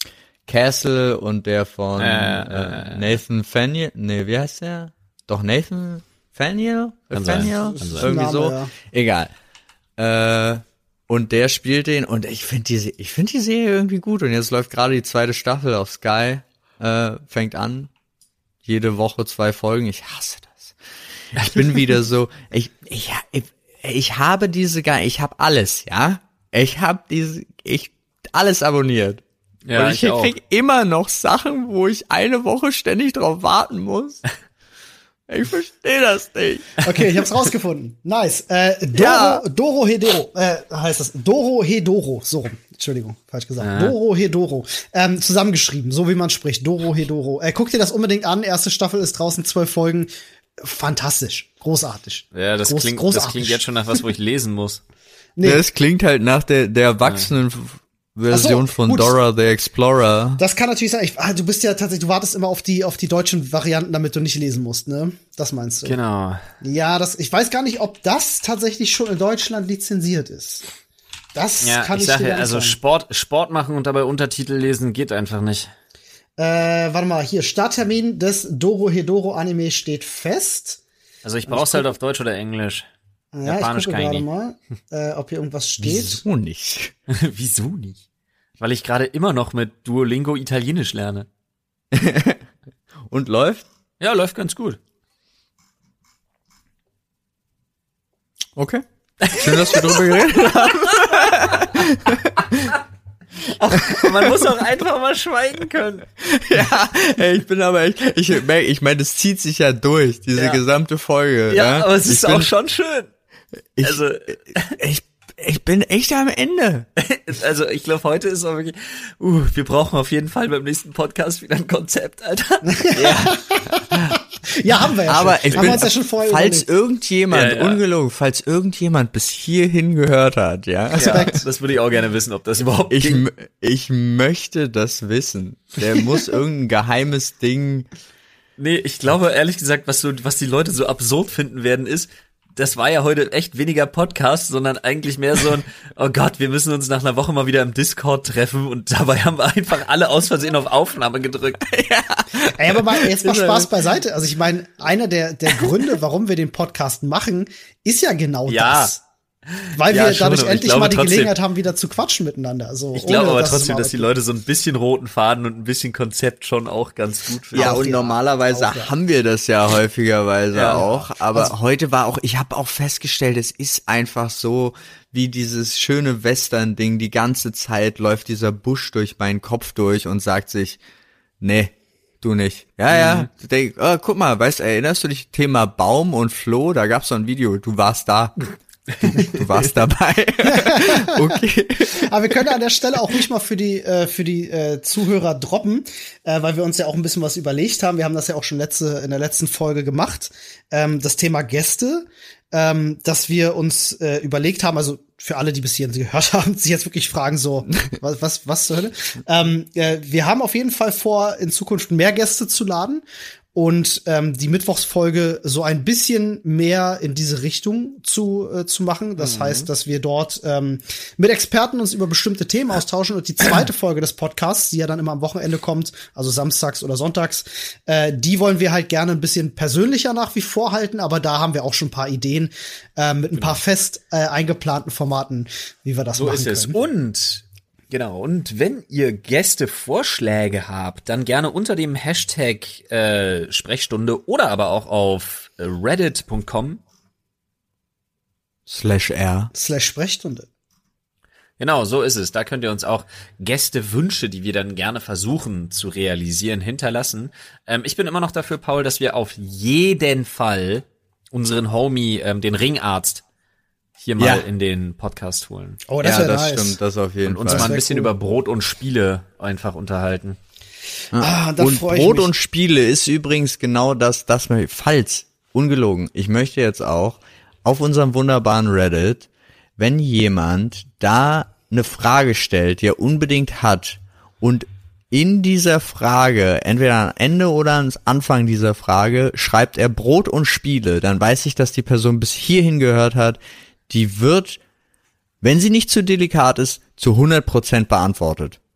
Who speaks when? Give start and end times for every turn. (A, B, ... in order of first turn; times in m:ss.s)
0:00.5-0:09.3 A
0:02.0-0:03.2 B
0:07.1-0:08.1 B
0:07.4-0:08.7 C
0:10.0-0:17.9 A
0:18.6-0:20.8 A
0:21.3-0:29.2 A
0:21.4-0:21.7 B
0:29.6-0:30.3 B
0:29.7-0:34.2 A
0:35.3-0:36.8 A
0:36.8-0:53.6 C
0:38.9-0:39.4 A
0:43.6-0:43.9 B
0:52.3-0:54.8 B
0:55.4-0:55.6 C
0:55.4-1:00.4 A
0:58.3-0:59.2 C
1:00.4-1:06.0 C
1:05.8-1:06.4 B
1:06.6-1:10.6 C
1:11.3-1:12.8 C
1:11.6-1:15.7 B
1:16.4-1:20.8 C
1:21.2-1:22.9 B
1:21.5-1:21.9 C
1:23.3-1:26.2 C
1:23.4-1:24.3 B
1:25.8-1:26.9 A
1:27.1-1:28.0 B
1:28.6-1:31.3 B
1:31.9-1:32.4 A
1:33.1-1:33.6 A
1:34.0-1:34.8 B
1:38.6-1:42.8 A
1:39.2-1:41.8 B
1:43.4-1:46.0 B
1:43.7-1:44.4 A
1:46.2-1:52.5 A
1:50.3-1:50.6 B
1:51.5-1:53.1 B
1:53.8-1:54.0 A
1:53.8-1:54.8 B
1:54.7-1:56.9 A
1:57.0-2:03.4 B
2:02.7-2:06.6 C
2:03.0-2:03.3 A
2:05.1-2:11.3 A
2:05.5-2:05.8 B
2:07.3-2:07.8 B
2:11.0-2:13.2 B
2:11.0-2:11.4 C
2:12.9-2:17.9 A
2:18.6-2:31.6 B
2:31.6-2:33.7 A
2:32.5-2:39.0 C
2:35.6-2:35.9 A
2:38.5-2:38.9 B
2:39.5-2:41.3 B
2:39.7-2:44.1 C
2:42.9-2:47.8 B
2:47.5-2:48.9 C
2:47.5-3:00.8 A
2:50.5-2:50.8 B
2:50.7-2:51.5 C
3:01.4-3:08.4 A
3:02.9-3:03.3 B
3:09.1-3:12.1 A
3:10.4-3:33.0 C
3:33.5-3:56.8 C
3:39.2-3:39.7 B
3:56.2-4:06.8 B
4:08.7-4:09.5 A
4:09.5-4:10.5 C
4:11.6-4:23.2 B
4:24.0-4:25.8 B
4:24.2-4:24.4 A
4:25.9-4:26.8 C
4:26.0-4:27.7 A
4:27.2-4:30.4 B
4:27.5-4:28.1 C
4:31.1-4:54.6 A
4:31.1-4:32.3 C
4:55.4-4:58.6 A